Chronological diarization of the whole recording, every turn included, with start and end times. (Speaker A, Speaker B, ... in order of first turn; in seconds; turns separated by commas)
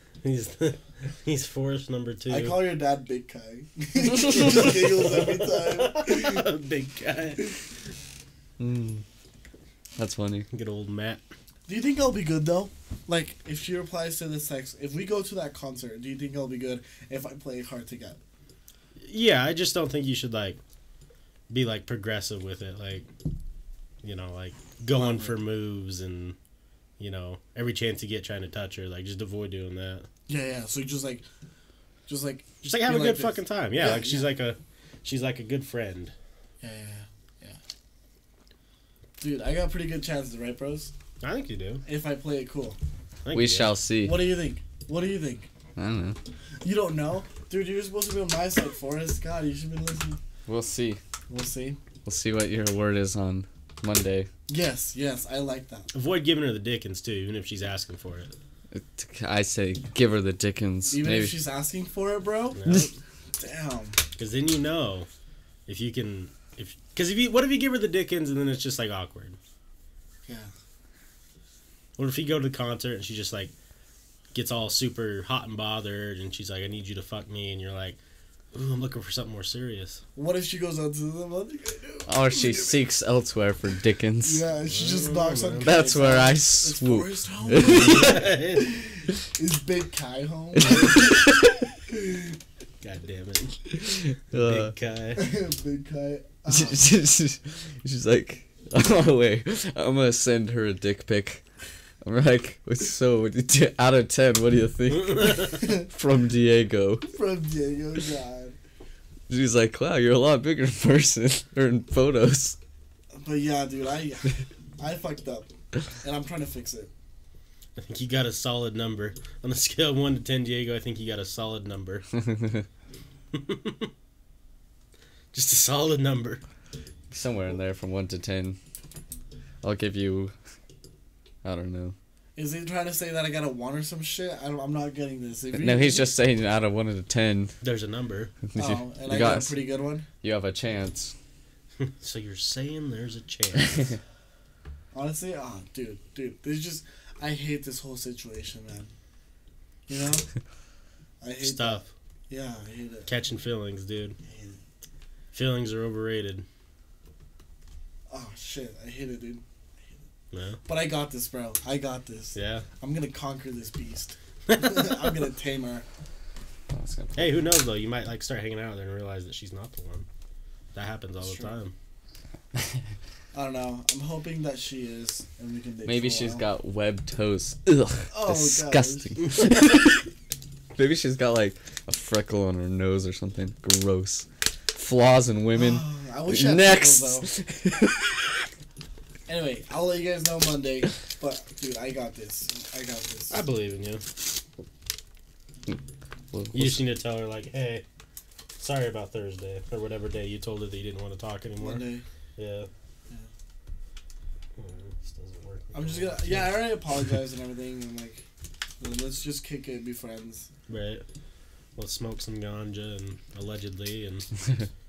Speaker A: 0.2-2.6, Speaker B: 2.3-6.5, Speaker A: 4.4-7.5, Speaker C: 8.6-9.0, Speaker C: 10.0-10.5, Speaker A: 10.5-11.2, Speaker B: 11.7-18.2, Speaker A: 19.0-20.6, Speaker A: 21.5-23.1, Speaker A: 24.0-26.4, Speaker B: 24.9-25.4, Speaker A: 27.0-30.1, Speaker B: 30.3-31.3, Speaker B: 32.1-34.3, Speaker A: 32.6-36.1, Speaker B: 36.6-37.6, Speaker B: 39.2-40.9, Speaker A: 41.2-41.8, Speaker B: 41.9-42.8, Speaker A: 43.2-43.8, Speaker C: 43.3-44.2, Speaker B: 44.0-45.5, Speaker C: 45.8-46.2, Speaker B: 46.6-50.2, Speaker C: 50.5-51.0, Speaker B: 51.3-51.8, Speaker C: 52.0-54.3, Speaker B: 54.5-55.9, Speaker A: 55.9-58.3, Speaker C: 58.7-61.4, Speaker B: 60.9-62.6, Speaker A: 62.5-62.9, Speaker B: 63.4-64.0, Speaker A: 64.2-65.1, Speaker A: 65.7-69.4, Speaker A: 72.0-73.5, Speaker A: 74.3-78.0, Speaker A: 78.5-80.0, Speaker B: 80.2-82.8, Speaker C: 82.1-84.4, Speaker B: 84.2-91.1, Speaker A: 84.7-85.7, Speaker C: 85.6-88.2, Speaker A: 87.6-88.7, Speaker C: 90.7-91.3, Speaker B: 91.9-92.4, Speaker A: 92.8-95.2, Speaker C: 93.9-94.7, Speaker B: 95.2-96.9, Speaker C: 96.5-101.4, Speaker C: 102.0-107.1, Speaker A: 105.0-105.5, Speaker B: 107.1-108.6, Speaker C: 109.3-112.6, Speaker B: 113.2-116.9, Speaker A: 117.8-122.0, Speaker C: 122.2-122.7, Speaker A: 123.3-123.9, Speaker A: 125.3-126.4, Speaker C: 127.1-128.6, Speaker C: 129.6-130.3, Speaker C: 131.4-131.9, Speaker B: 132.4-136.2, Speaker C: 135.5-137.5, Speaker A: 137.6-138.3, Speaker C: 138.5-139.6, Speaker B: 138.6-140.1, Speaker C: 140.2-141.1, Speaker A: 141.8-143.9, Speaker B: 144.9-148.9, Speaker B: 149.9-150.3, Speaker B: 151.2-153.1, Speaker A: 151.4-151.9, Speaker A: 153.1-154.2, Speaker B: 154.2-154.6, Speaker A: 155.3-156.4, Speaker B: 158.1-159.4, Speaker A: 160.3-160.6, Speaker B: 160.7-165.8, Speaker A: 162.3-162.7, Speaker A: 164.5-165.1, Speaker C: 166.7-167.4, Speaker A: 167.2-170.1, Speaker A: 170.7-171.7, Speaker B: 171.2-171.5, Speaker B: 173.3-176.5, Speaker C: 175.8-180.1, Speaker B: 178.1-179.2, Speaker C: 180.8-188.3, Speaker B: 185.5-187.3, Speaker B: 189.3-193.4, Speaker A: 193.3-194.0, Speaker C: 196.3-196.8, Speaker A: 196.5-197.8, Speaker A: 198.6-202.7, Speaker B: 201.6-202.0, Speaker A: 204.6-206.8, Speaker B: 205.7-208.2, Speaker B: 208.8-210.5, Speaker A: 210.7-211.0, Speaker A: 211.8-214.3